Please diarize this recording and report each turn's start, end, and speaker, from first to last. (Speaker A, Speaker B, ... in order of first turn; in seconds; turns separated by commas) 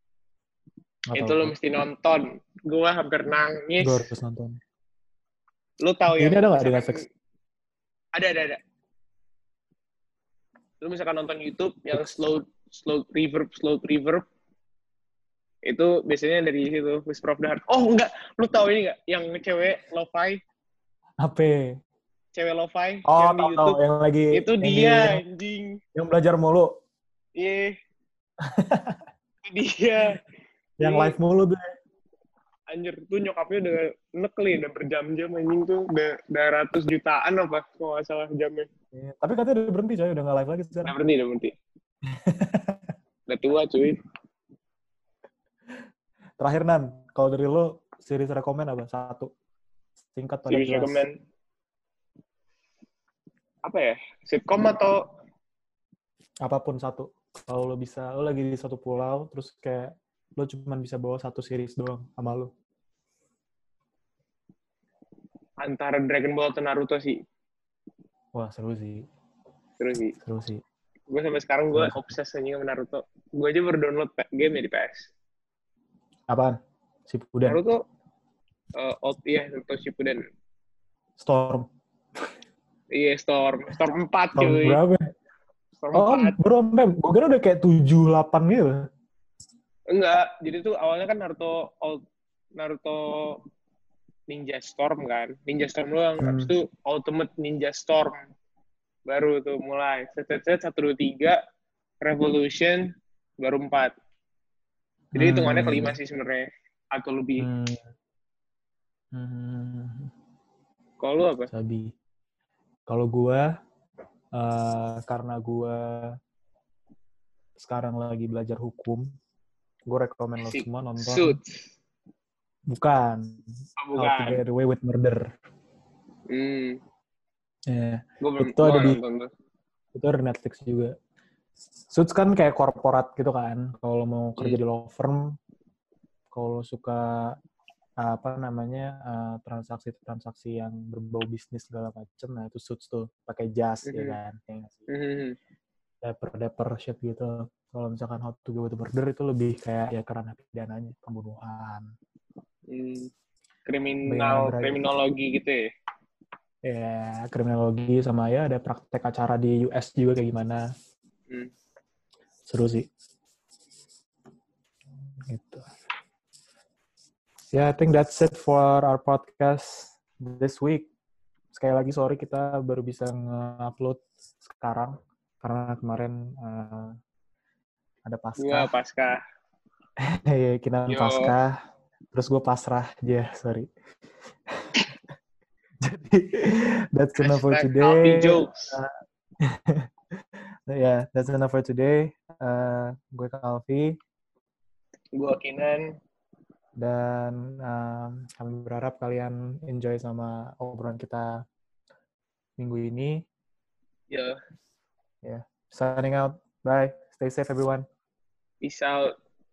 Speaker A: 1.1-1.5, Speaker B: 1.1-4.1, Speaker A: 3.8-4.6, Speaker B: 5.8-7.0, Speaker A: 6.2-7.0, Speaker B: 8.1-8.6, Speaker B: 10.8-14.2, Speaker B: 15.7-20.4, Speaker A: 21.2-21.7, Speaker B: 22.3-23.8, Speaker A: 23.1-25.2, Speaker B: 24.3-25.8, Speaker A: 25.9-26.7, Speaker B: 27.4-27.8, Speaker A: 28.4-29.0, Speaker B: 29.4-30.2, Speaker A: 30.8-31.6, Speaker B: 30.8-31.1, Speaker B: 32.7-38.7, Speaker A: 38.9-40.9, Speaker B: 40.8-41.5, Speaker A: 42.1-42.9, Speaker B: 43.3-44.0, Speaker A: 46.4-49.3, Speaker A: 50.1-51.0, Speaker B: 50.5-51.2, Speaker B: 53.6-55.0, Speaker A: 56.4-62.5, Speaker B: 65.6-67.2, Speaker A: 68.3-69.0, Speaker B: 69.8-70.2, Speaker A: 70.2-70.6, Speaker B: 71.1-75.1, Speaker A: 71.7-72.0, Speaker A: 76.3-77.6, Speaker B: 77.5-77.8, Speaker B: 78.7-80.3, Speaker A: 81.2-81.7, Speaker B: 82.9-84.8, Speaker A: 84.3-85.0, Speaker B: 85.8-86.3, Speaker A: 85.9-88.8, Speaker B: 89.9-92.0, Speaker B: 92.5-93.4, Speaker B: 94.3-98.2, Speaker A: 96.2-96.5, Speaker B: 99.0-101.4, Speaker B: 102.0-103.9, Speaker A: 105.1-106.0, Speaker B: 105.2-107.5, Speaker A: 107.4-107.8, Speaker A: 109.1-110.1, Speaker B: 111.0-111.5, Speaker A: 111.5-111.9, Speaker A: 112.9-113.4, Speaker A: 114.3-116.1, Speaker A: 117.6-119.0, Speaker A: 119.9-121.4, Speaker B: 120.4-121.7, Speaker A: 122.7-123.4, Speaker B: 123.8-124.4, Speaker A: 123.9-125.2, Speaker B: 126.3-126.8, Speaker A: 127.7-129.0, Speaker B: 128.2-129.3, Speaker A: 129.9-130.9, Speaker A: 131.9-135.3, Speaker A: 136.3-137.4, Speaker A: 138.0-144.9, Speaker B: 143.8-144.2, Speaker B: 144.9-145.4, Speaker A: 146.0-151.8, Speaker B: 152.7-153.1, Speaker B: 153.7-155.7, Speaker A: 154.1-154.8, Speaker A: 156.6-160.6, Speaker A: 162.5-162.9, Speaker A: 165.3-165.7, Speaker A: 167.5-170.9, Speaker A: 171.5-176.9, Speaker A: 178.0-178.7, Speaker B: 178.4-179.2, Speaker A: 180.1-181.5, Speaker B: 180.9-181.3, Speaker A: 182.1-183.7, Speaker A: 184.6-184.9, Speaker A: 185.8-188.9, Speaker B: 187.2-188.7, Speaker A: 189.4-189.8, Speaker A: 190.7-193.9, Speaker B: 195.1-195.9, Speaker A: 196.8-201.3, Speaker A: 202.6-203.2, Speaker B: 204.1-204.3, Speaker A: 205.2-207.8, Speaker B: 208.6-209.1